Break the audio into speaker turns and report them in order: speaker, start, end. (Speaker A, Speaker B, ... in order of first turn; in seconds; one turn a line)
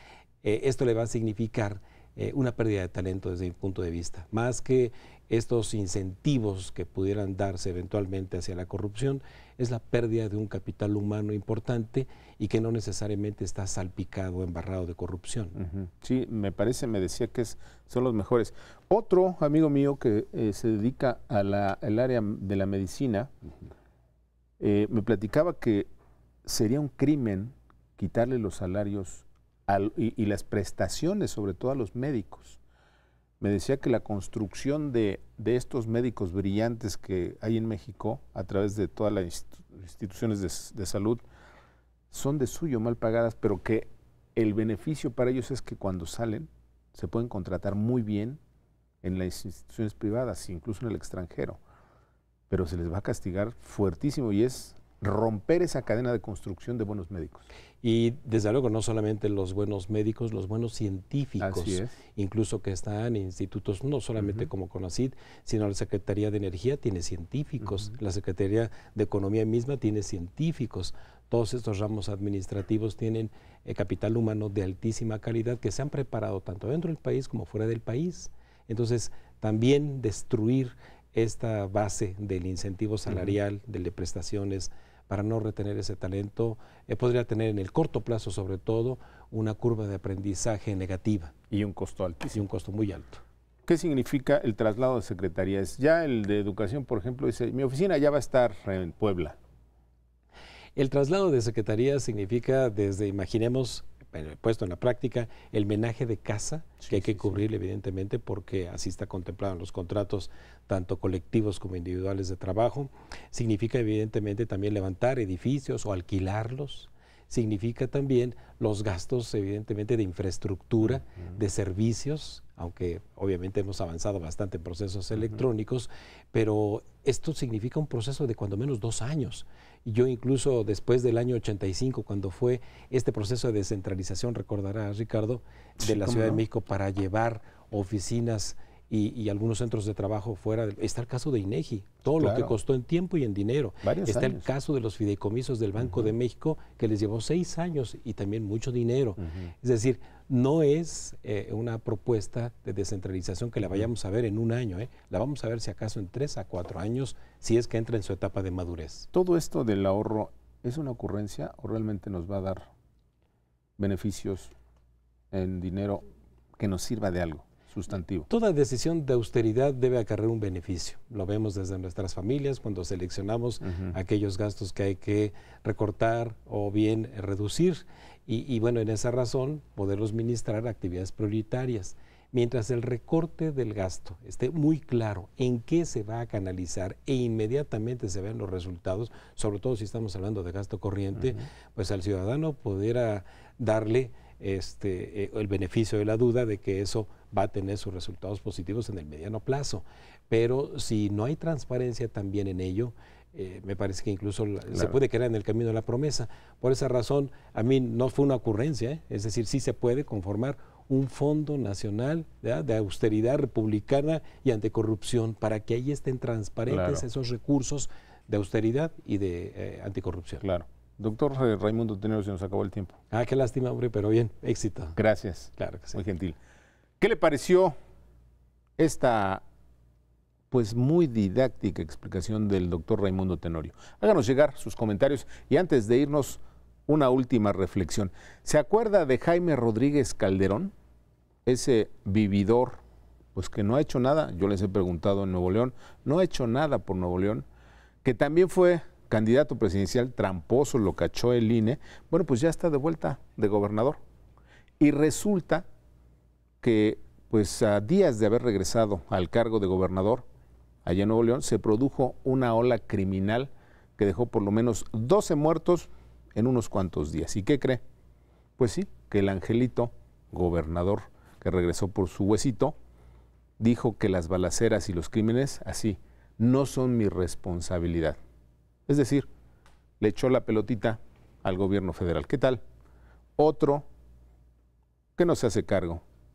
Speaker A: 0.4-15.6
Speaker B: 15.6-23.3
Speaker B: 24.6-25.9
Speaker B: 26.4-32.6
Speaker B: 33.4-41.2
Speaker B: 42.1-48.4
Speaker B: 49.0-51.6
Speaker B: 52.5-57.5
Speaker A: 57.8-91.3
Speaker B: 61.4-62.0
Speaker B: 64.2-64.5
Speaker B: 83.1-83.3
Speaker B: 91.5-92.4
Speaker A: 92.3-93.2
Speaker B: 93.7-99.4
Speaker A: 100.8-159.1
Speaker B: 106.8-107.4
Speaker B: 135.8-136.4
Speaker B: 142.2-142.5
Speaker B: 143.8-144.5
Speaker B: 145.8-146.1
Speaker B: 159.1-162.7
Speaker B: 163.8-164.5
Speaker B: 165.3-166.0
Speaker B: 166.6-168.3
Speaker A: 168.3-220.4
Speaker B: 216.7-217.1
Speaker B: 220.4-222.9
Speaker A: 223.1-225.0
Speaker B: 225.0-226.4
Speaker A: 225.6-226.0
Speaker B: 227.0-227.7
Speaker B: 228.8-229.4
Speaker B: 230.5-240.7
Speaker B: 241.5-242.8
Speaker B: 243.3-247.5
Speaker B: 248.0-254.0
Speaker B: 254.8-255.7
Speaker B: 256.6-260.3
Speaker B: 260.9-267.8
Speaker B: 268.6-272.8
Speaker B: 273.6-278.2
Speaker B: 278.9-279.3
Speaker B: 280.0-282.6
Speaker B: 283.4-283.9
Speaker B: 285.2-286.0